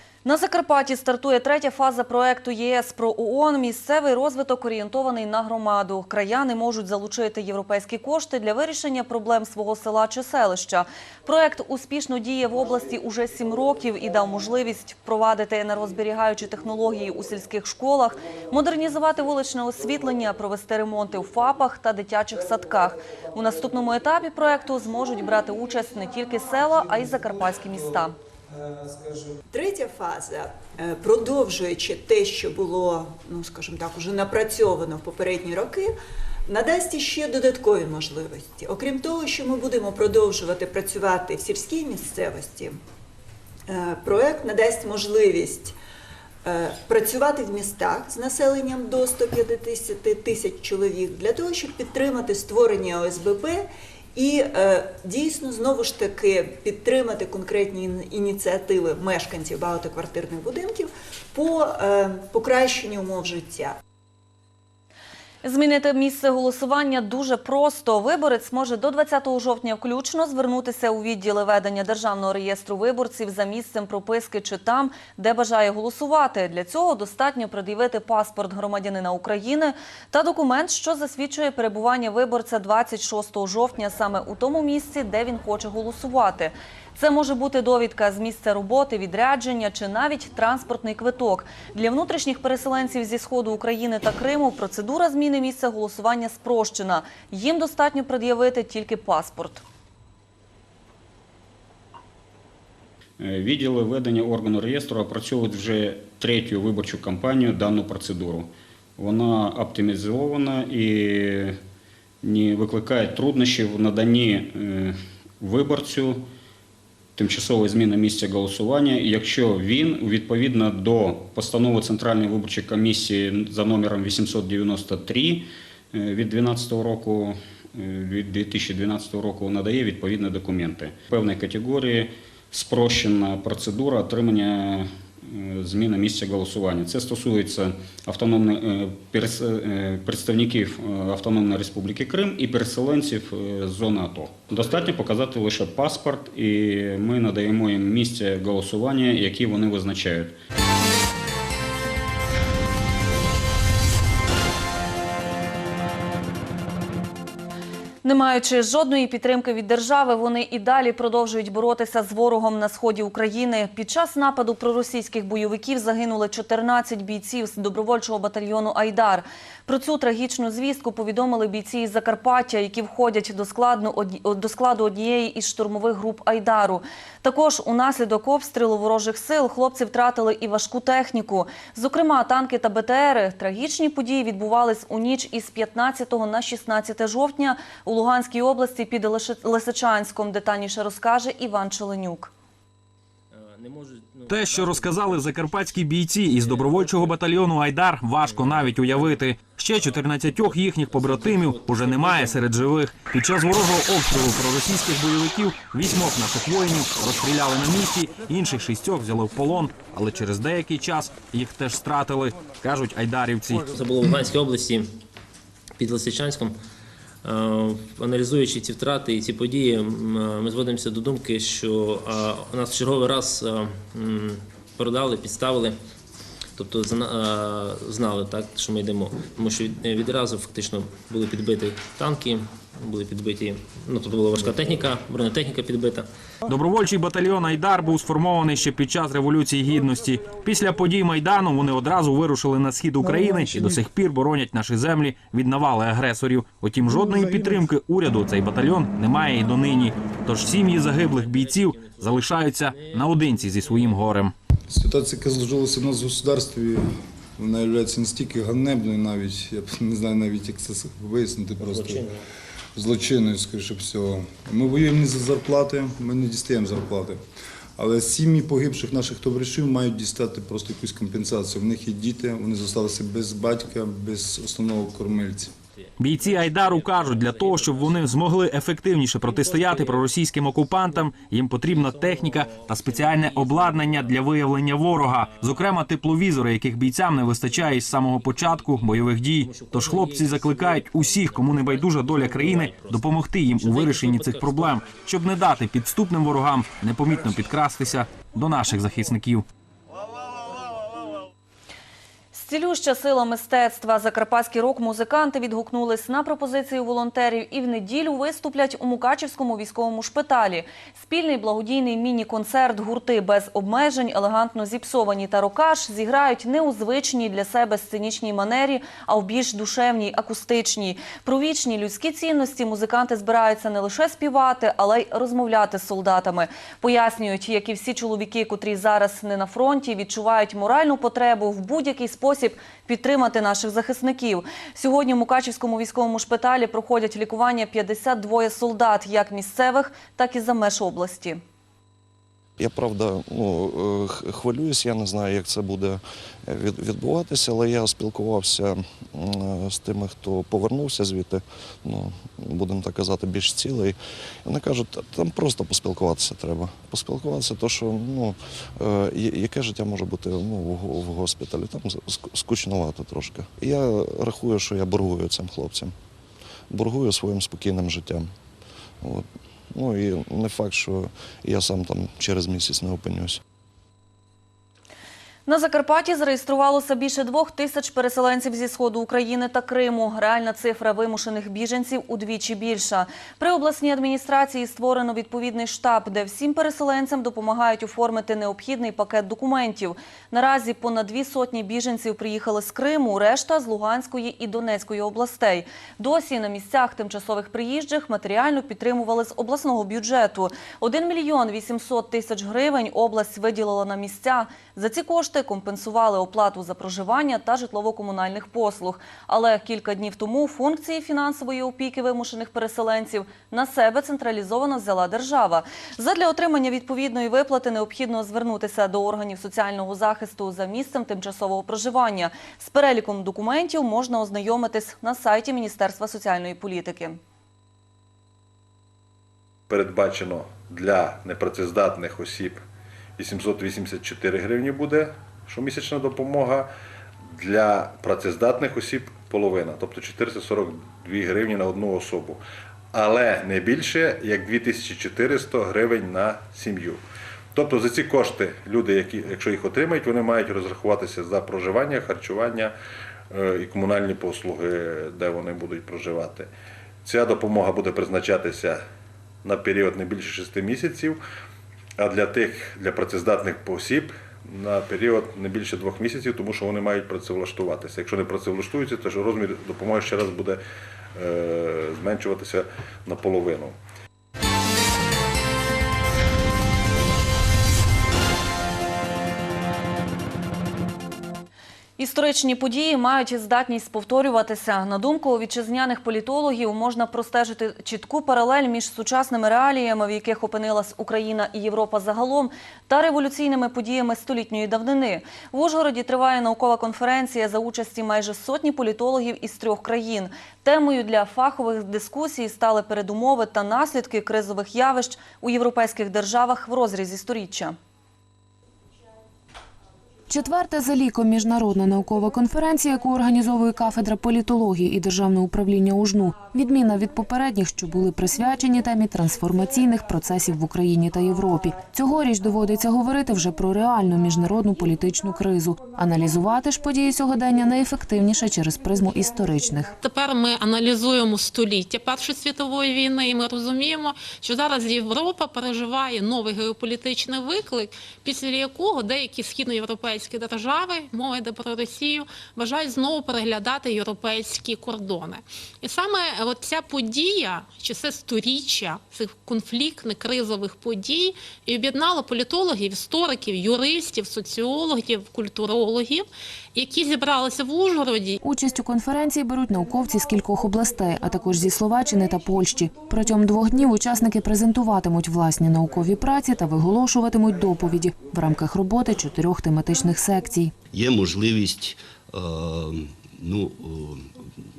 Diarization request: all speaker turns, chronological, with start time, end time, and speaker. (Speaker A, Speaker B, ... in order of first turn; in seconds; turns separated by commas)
Speaker A: 0.2-28.1, Speaker B: 29.5-35.9, Speaker B: 36.5-42.8, Speaker B: 43.7-45.8, Speaker B: 46.5-63.7, Speaker A: 65.4-99.6, Speaker C: 103.2-111.6, Speaker C: 112.2-116.2, Speaker C: 117.2-150.3, Speaker A: 158.0-192.3, Speaker D: 193.3-197.4, Speaker E: 194.3-213.7, Speaker D: 198.2-199.4, Speaker D: 200.3-202.5, Speaker D: 213.5-214.9, Speaker D: 215.8-216.6, Speaker D: 217.2-225.8, Speaker D: 226.6-236.1, Speaker E: 236.5-254.3, Speaker F: 246.9-247.7, Speaker D: 250.5-254.1, Speaker F: 254.7-256.8, Speaker F: 257.4-262.1, Speaker D: 261.6-262.1, Speaker F: 262.8-267.2, Speaker F: 267.8-275.5, Speaker D: 275.8-278.4, Speaker E: 276.0-299.4, Speaker D: 279.2-294.9, Speaker A: 302.3-341.4, Speaker G: 342.6-365.9, Speaker G: 366.7-368.3, Speaker G: 369.0-373.4, Speaker A: 375.5-427.2, Speaker H: 429.7-432.6, Speaker H: 433.2-436.7, Speaker H: 437.4-442.4, Speaker H: 442.9-447.0, Speaker H: 447.6-452.8, Speaker H: 453.3-456.5, Speaker H: 457.1-458.8, Speaker H: 459.4-461.2, Speaker H: 462.0-470.6, Speaker H: 471.2-473.8, Speaker A: 482.0-507.8, Speaker I: 510.3-529.9, Speaker J: 530.1-558.3, Speaker I: 558.4-570.7, Speaker K: 570.9-574.3